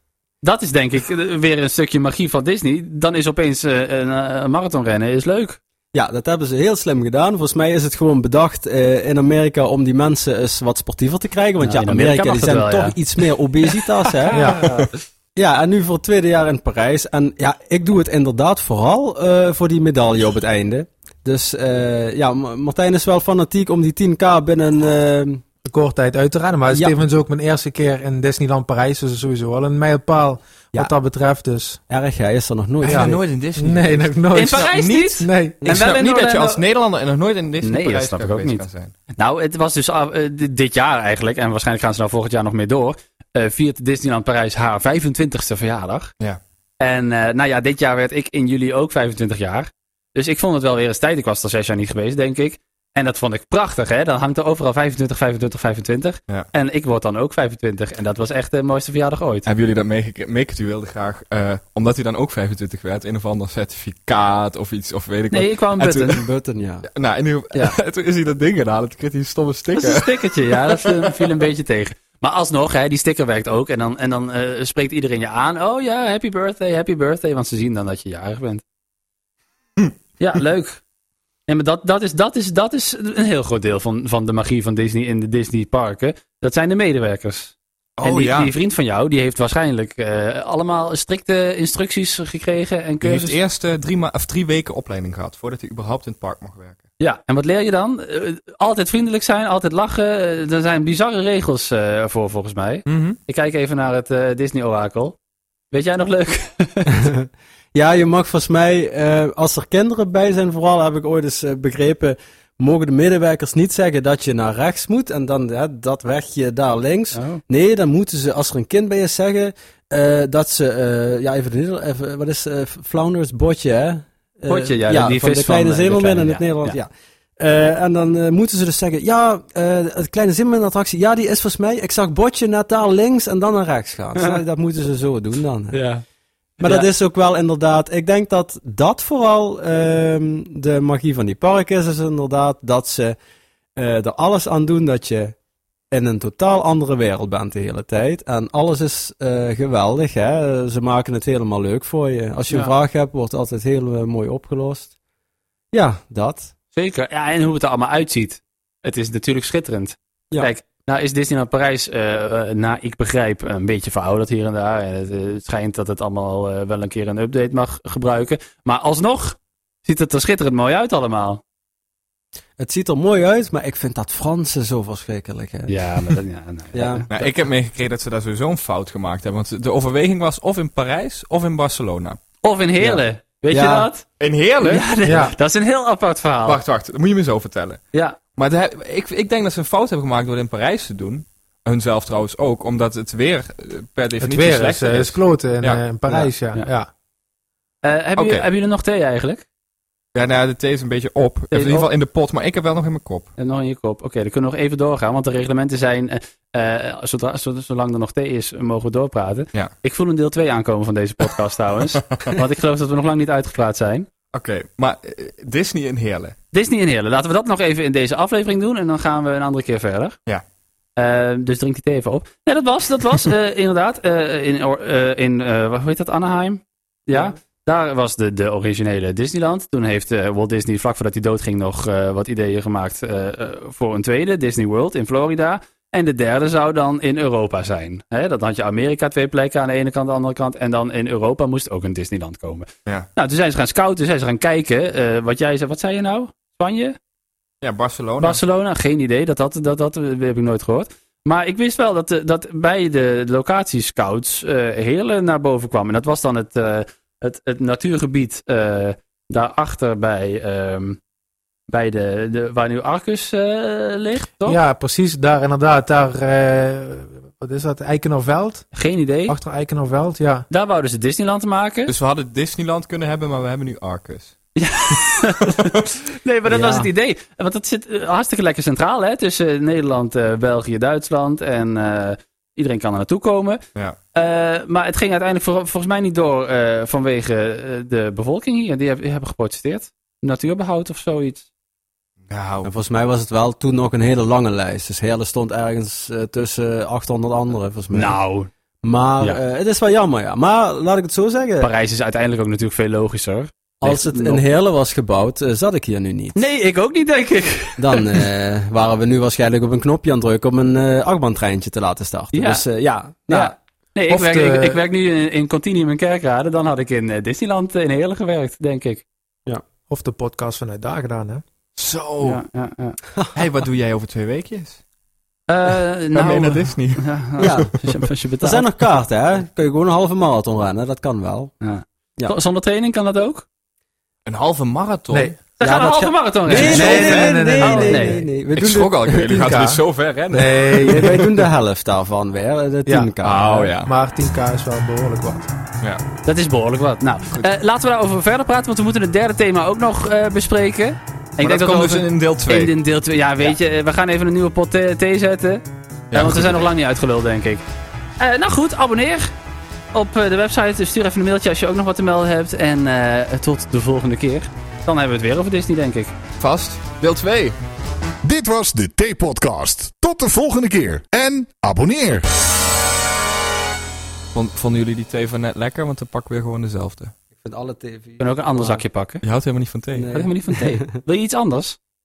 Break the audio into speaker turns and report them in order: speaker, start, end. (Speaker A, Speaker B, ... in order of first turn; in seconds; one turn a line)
Speaker A: 0.4-5.6
Speaker B: 5.9-14.6
Speaker A: 11.6-13.0
Speaker A: 14.2-14.9
Speaker C: 14.3-14.8
Speaker B: 15.3-25.4
Speaker C: 25.6-31.8
Speaker B: 31.9-33.1
Speaker D: 32.8-38.9
Speaker C: 32.9-34.7
Speaker A: 34.3-36.6
Speaker C: 35.2-35.7
Speaker A: 37.6-46.1
Speaker A: 46.8-59.5
Speaker D: 59.5-66.2
Speaker A: 65.3-66.2
Speaker B: 66.1-66.9
Speaker D: 66.9-71.1
Speaker A: 69.8-78.6
Speaker A: 80.2-80.8
Speaker A: 81.5-93.4
Speaker D: 88.0-88.5
Speaker D: 93.0-96.8
Speaker A: 97.0-105.2
Speaker D: 102.9-103.2
Speaker A: 105.7-107.1
Speaker B: 106.9-135.8
Speaker A: 117.1-117.4
Speaker A: 124.5-126.8
Speaker A: 135.7-136.0
Speaker B: 136.6-143.2
Speaker A: 136.6-136.9
Speaker B: 143.8-145.3
Speaker B: 145.9-154.9
Speaker B: 155.7-156.5
Speaker A: 156.7-171.4
Speaker B: 172.6-176.1
Speaker A: 175.7-177.1
Speaker B: 176.7-177.3
Speaker D: 177.1-182.2
Speaker A: 182.4-184.1
Speaker B: 182.8-183.9
Speaker D: 184.2-184.9
Speaker A: 184.6-186.6
Speaker C: 185.1-185.3
Speaker D: 186.4-187.8
Speaker D: 188.4-195.8
Speaker C: 194.2-196.9
Speaker A: 197.8-199.4
Speaker D: 198.2-198.4
Speaker D: 200.2-203.3
Speaker A: 201.5-201.9
Speaker A: 203.4-214.1
Speaker D: 214.3-216.3
Speaker A: 216.5-220.2
Speaker A: 221.0-247.0
Speaker D: 247.6-248.4
Speaker A: 248.2-261.0
Speaker A: 261.7-264.6
Speaker C: 264.4-268.7
Speaker A: 268.7-269.4
Speaker C: 269.3-270.5
Speaker A: 270.5-271.9
Speaker D: 271.9-274.3
Speaker A: 274.6-283.6
Speaker B: 276.5-276.9
Speaker A: 284.1-291.5
Speaker D: 292.3-292.7
Speaker B: 292.6-298.2
Speaker A: 297.9-298.5
Speaker B: 298.8-301.7
Speaker A: 301.6-304.4
Speaker B: 303.8-306.4
Speaker A: 306.4-308.2
Speaker B: 307.8-313.6
Speaker A: 312.3-312.6
Speaker A: 313.3-319.0
Speaker C: 314.1-314.8
Speaker C: 319.9-321.4
Speaker D: 321.8-322.4
Speaker A: 322.2-323.0
Speaker D: 323.3-324.8
Speaker A: 325.5-328.7
Speaker D: 326.1-327.8
Speaker B: 327.4-327.7
Speaker B: 328.4-331.5
Speaker A: 331.6-333.5
Speaker D: 334.3-335.4
Speaker C: 335.1-335.4
Speaker A: 335.6-338.2
Speaker B: 335.6-339.4
Speaker C: 336.5-338.1
Speaker D: 336.5-337.4
Speaker D: 338.5-341.2
Speaker C: 339.4-341.3
Speaker B: 340.9-343.7
Speaker C: 342.9-343.1
Speaker D: 343.2-343.9
Speaker C: 343.8-345.5
Speaker A: 346.2-357.6
Speaker D: 351.4-352.8
Speaker D: 356.1-356.7
Speaker A: 358.2-359.3
Speaker A: 359.9-366.1
Speaker D: 366.4-367.6
Speaker E: 368.2-372.3
Speaker D: 374.3-377.1
Speaker B: 377.4-378.9
Speaker A: 378.2-379.2
Speaker D: 379.2-380.2
Speaker B: 379.9-380.8
Speaker A: 380.1-381.8